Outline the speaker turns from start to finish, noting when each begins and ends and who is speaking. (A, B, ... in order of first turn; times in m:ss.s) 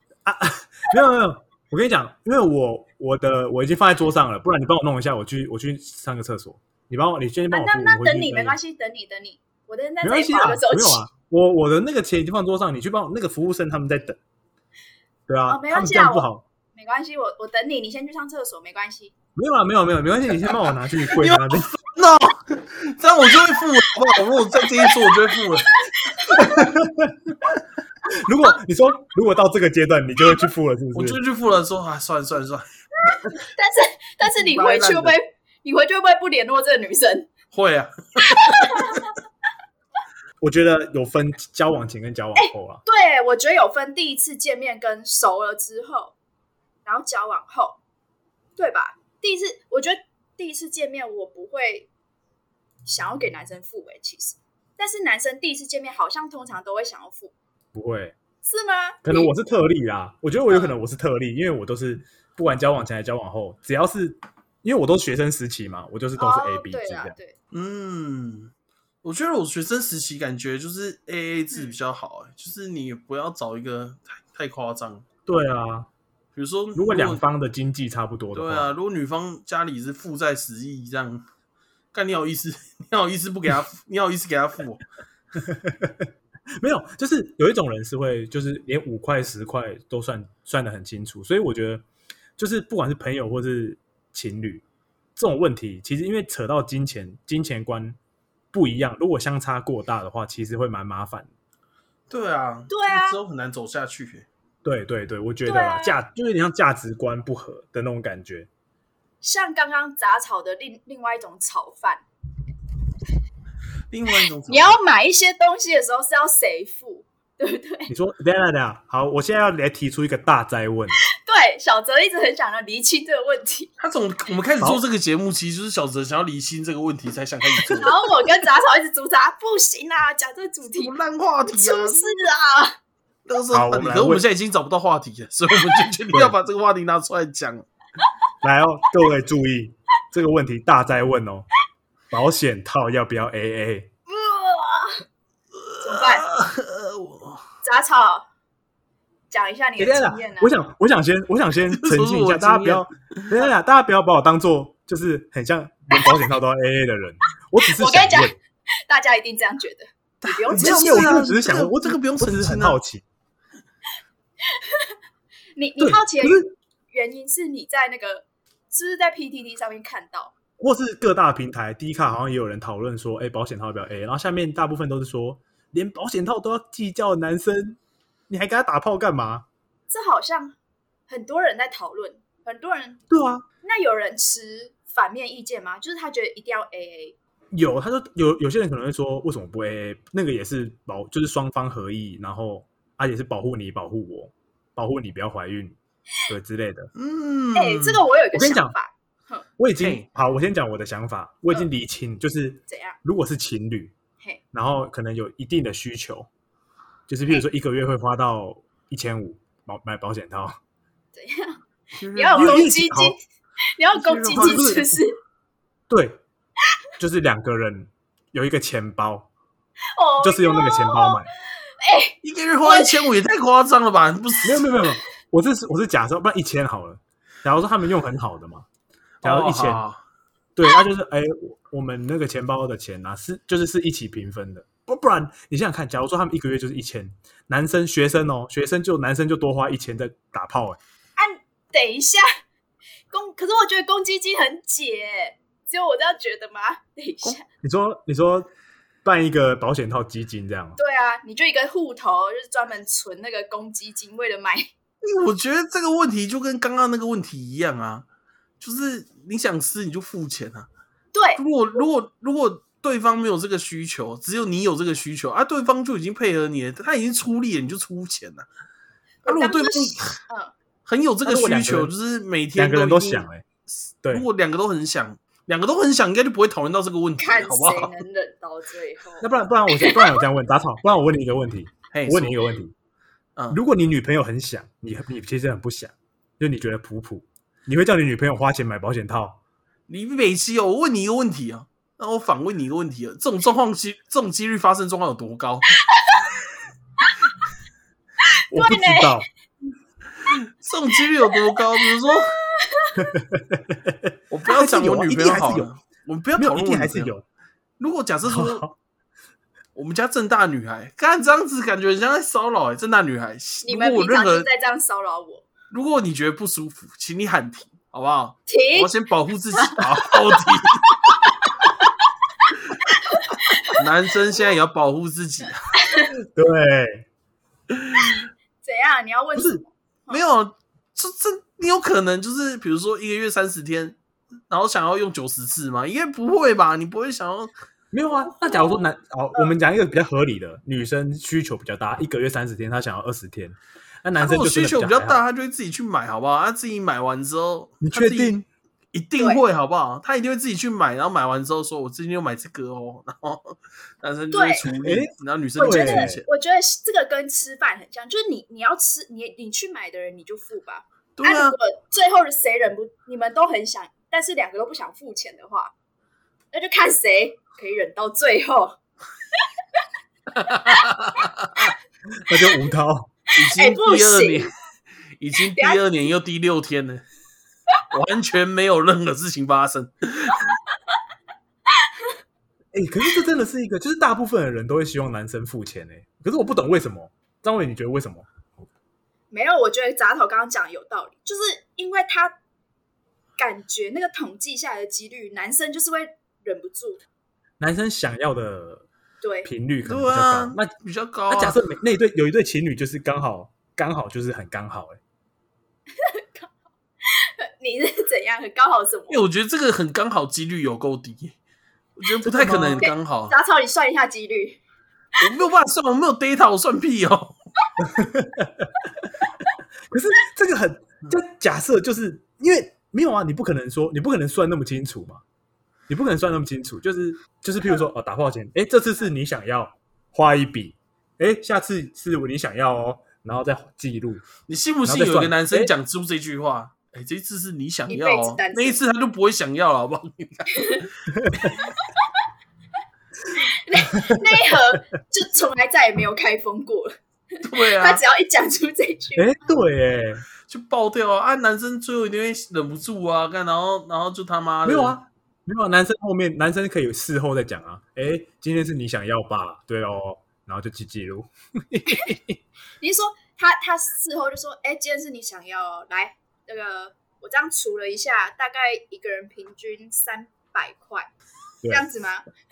0:00.2-0:08.6 A
0:07.5-0:11.0 B
0:10.0-0:14.2 A
0:15.3-0:16.4 A
0:15.5-0:19.1 B
0:19.4-0:21.7 A
0:21.1-0:25.7 C
0:24.5-0:26.6 B
0:26.3-0:27.3 A
0:28.1-0:31.2 A
0:30.9-0:32.6 C
0:33.3-0:37.3 B
0:34.2-0:35.2 C
0:37.5-0:39.0 C
0:38.2-0:39.1 B
0:40.4-0:42.8 A
0:42.4-0:46.2 B
0:46.8-0:47.8 B
0:48.6-0:51.9 B
0:52.8-0:57.3 B
0:57.7-0:58.2 A
0:58.4-0:59.3 B
0:59.0-1:07.2 A
1:00.5-1:00.8 B
1:06.2-1:07.3 B
1:07.5-1:08.5 C
1:09.0-1:15.0 C
1:15.3-1:15.9 A
1:16.3-1:17.2 C
1:16.7-1:18.7 A
1:18.3-1:21.2 C
1:21.9-1:24.8 C
1:25.4-1:31.8 A
1:32.4-1:34.6 A
1:35.2-1:38.0 A
1:38.5-1:41.3 A
1:42.1-1:44.3 C
1:42.7-1:43.2 B
1:44.6-1:48.5 A
1:45.4-1:46.0 B
1:49.2-1:52.0 B
1:53.9-1:54.8 C
1:54.5-1:57.9 B
1:57.9-2:01.0 A
2:01.1-2:03.7 B
2:03.8-2:08.0 C
2:07.7-2:10.9 B
2:10.7-2:12.0 C
2:11.4-2:12.8 B
2:13.3-2:17.6 C
2:13.5-2:14.2 A
2:18.4-2:21.5 A
2:22.1-2:23.9 A
2:24.1-2:25.0 B
2:25.5-2:27.4 C
2:25.8-2:26.2 B
2:27.6-2:28.2 B
2:29.3-2:30.5 B
2:29.8-2:38.4 A
2:31.7-2:33.3 C
2:37.7-2:41.2 B
2:40.2-2:42.8 C
2:40.5-2:43.0 A
2:44.5-2:44.9 B
2:45.6-2:50.3 B
2:45.8-2:46.5 A
2:50.6-2:59.4 A
2:59.9-3:00.5 B
3:01.1-3:03.0 B
3:03.1-3:03.4 A
3:03.6-3:07.1 B
3:07.5-3:16.9 A
3:17.0-3:18.0 C
3:17.5-3:19.4 B
3:18.3-3:18.7 A
3:19.6-3:23.9 A
3:19.8-3:20.0 C
3:22.7-3:23.0 B
3:24.5-3:26.3 A
3:27.1-3:30.6 A
3:31.1-3:31.6 B
3:31.9-3:32.7 C
3:32.1-3:33.2 B
3:32.4-3:33.2 A
3:33.8-3:35.2 B
3:33.9-3:34.7 C
3:34.3-3:35.0 A
3:35.9-3:36.2 A
3:37.0-3:39.3 A
3:39.9-3:43.1 B
3:40.2-3:41.3 A
3:42.2-3:44.6 C
3:44.4-3:48.6 A
3:49.2-3:50.0 C
3:49.2-3:49.8 A
3:50.6-4:00.8 A
4:01.2-4:02.2 B
4:03.1-4:07.4 B
4:07.6-4:08.5 A
4:09.0-4:10.8 A
4:10.8-4:14.7 B
4:15.0-4:18.0 C
4:18.6-4:20.7 C
4:21.1-4:21.4 B
4:21.4-4:28.5 C
4:29.2-4:30.2 C
4:29.2-4:30.5 B
4:30.8-4:33.2 C
4:31.2-4:31.9 A
4:32.6-4:33.4 A
4:34.1-4:38.0 C
4:37.2-4:40.2 B
4:39.2-4:42.7 A
4:41.9-4:42.4 C
4:43.5-4:49.4 A
4:49.9-4:55.7 C
4:55.8-4:56.3 B
4:58.5-4:59.2 B
4:58.5-4:59.3 A
5:00.2-5:02.4 C
5:01.3-5:03.1 B
5:03.0-5:05.7 A
5:04.3-5:07.1 C
5:06.4-5:07.2 A
5:07.8-5:08.6 C
5:08.2-5:08.8 A
5:09.8-5:14.5 C
5:13.6-5:15.4 B
5:15.7-5:20.9 C
5:18.5-5:19.0 B
5:19.5-5:20.4 B
5:21.0-5:21.3 B
5:22.9-5:23.8 B
5:23.7-5:25.6 C
5:25.8-5:26.1 B
5:26.3-5:27.1 A
5:27.7-5:28.2 C
5:28.6-5:30.2 B
5:29.4-5:29.6 A
5:30.1-5:34.0 C
5:34.5-5:37.5 C
5:37.9-5:45.2 A
5:38.4-5:38.8 B
5:44.2-5:48.4 C
5:47.8-5:48.4 A
5:48.9-5:56.2 C
5:54.3-5:54.7 B
5:54.7-5:56.2 A
5:55.6-6:05.7 B
6:01.2-6:01.6 C
6:06.5-6:08.8 B
6:09.4-6:09.8 B
6:10.3-6:11.7 C
6:12.2-6:13.1 A
6:13.3-6:14.5 C
6:13.4-6:14.5 B
6:15.2-6:17.0 C
6:15.4-6:15.8 B
6:17.9-6:20.5 C
6:22.7-6:28.3 A
6:29.3-6:32.4 B
6:33.4-6:37.0 B
6:37.6-6:38.8 A
6:39.2-6:39.5 B
6:39.4-6:40.7 A
6:39.8-6:41.6 C
6:41.3-6:45.0 A
6:46.0-6:46.5 B
6:47.0-6:49.2 B
6:49.1-6:51.4 C
6:52.0-6:53.3 C
6:52.2-6:52.8 A
6:52.5-6:54.6 B
6:55.2-6:57.3 C
6:57.8-6:58.7 A
6:59.9-7:05.2 A
7:05.9-7:14.2 A
7:14.5-7:20.8 C
7:14.8-7:15.7 A
7:17.9-7:18.8 B
7:20.5-7:20.9 B
7:21.1-7:21.6 A
7:21.8-7:22.0 B
7:23.4-7:29.2 B
7:23.9-7:24.8 A
7:27.4-7:28.0 C
7:29.1-7:30.2 A
7:30.5-7:35.0 C
7:34.6-7:42.4 A
7:42.8-7:51.1 B
7:51.7-7:52.2 B